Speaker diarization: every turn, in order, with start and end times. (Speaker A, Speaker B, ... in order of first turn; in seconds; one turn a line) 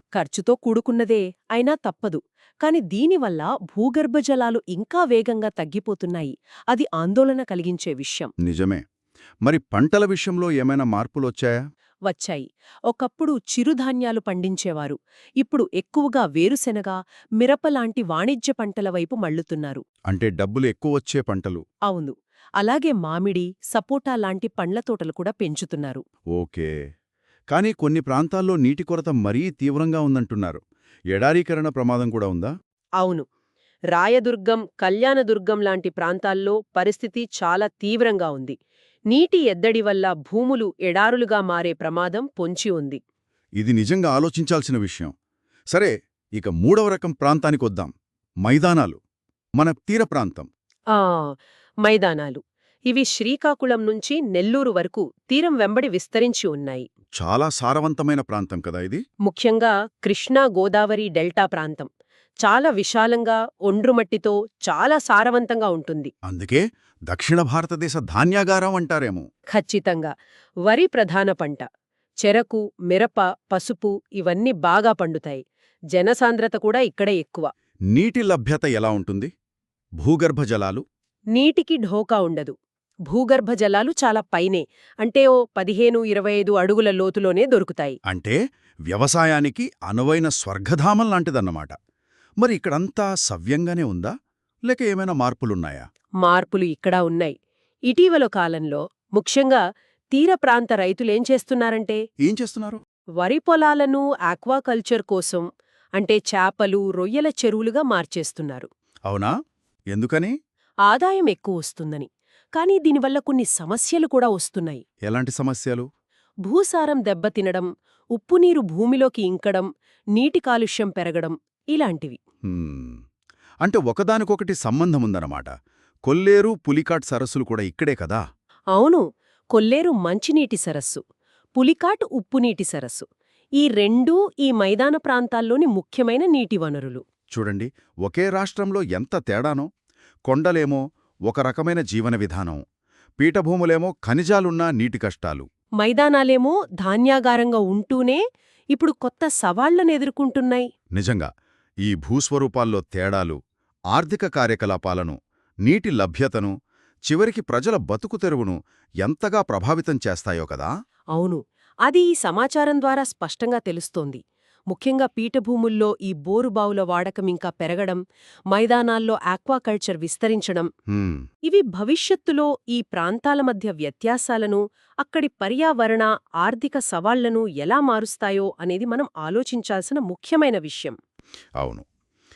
Speaker A: 0.1-8.3
Speaker B: 8.4-8.8
Speaker B: 9.4-11.5
Speaker A: 12.1-19.8
Speaker B: 20.1-21.6
Speaker A: 21.9-26.0
Speaker B: 26.4-26.7
Speaker B: 27.5-30.6
Speaker B: 31.1-32.5
Speaker A: 33.0-33.3
Speaker A: 33.9-38.6
Speaker A: 39.1-43.0
Speaker B: 43.6-45.1
Speaker B: 45.7-47.9
Speaker B: 48.5-49.0
Speaker B: 49.6-50.5
Speaker A: 50.9-56.9
Speaker B: 57.2-59.0
Speaker A: 59.3-61.9
Speaker A: 62.4-66.1
Speaker B: 66.3-69.3
Speaker A: 69.5-70.1
Speaker A: 70.7-71.7
Speaker A: 72.2-77.5
Speaker B: 77.9-79.3
Speaker B: 80.0-80.8
Speaker A: 81.3-82.6
Speaker A: 83.1-88.0
Speaker B: 88.1-88.4
Speaker B: 88.9-91.8
Speaker B: 92.4-94.1
Speaker B: 94.7-95.8
Speaker A: 96.2-97.4
Speaker A: 97.9-102.0
Speaker B: 102.2-102.8
Speaker A: 103.2-105.5
Speaker A: 106.0-108.7
Speaker B: 109.9-110.3
Speaker A: 110.9-114.8
Speaker B: 115.1-115.9
Speaker A: 116.5-122.2
Speaker B: 122.5-123.0
Speaker B: 123.6-125.5
Speaker B: 126.1-128.2
Speaker A: 128.8-131.0
Speaker A: 131.6-133.1
Speaker A: 133.6-137.0
Speaker B: 137.3-139.7
Speaker B: 140.3-142.6
Speaker B: 143.2-145.5
Speaker A: 145.8-148.2
Speaker A: 148.7-150.7
Speaker B: 150.9-151.3
Speaker B: 151.8-153.4
Speaker B: 153.9-156.5
Speaker B: 157.1-160.7
Speaker A: 161.1-168.0
Speaker A: 168.5-170.7
Speaker B: 170.9-171.2
Speaker A: 171.5-181.0
Speaker B: 181.6-181.8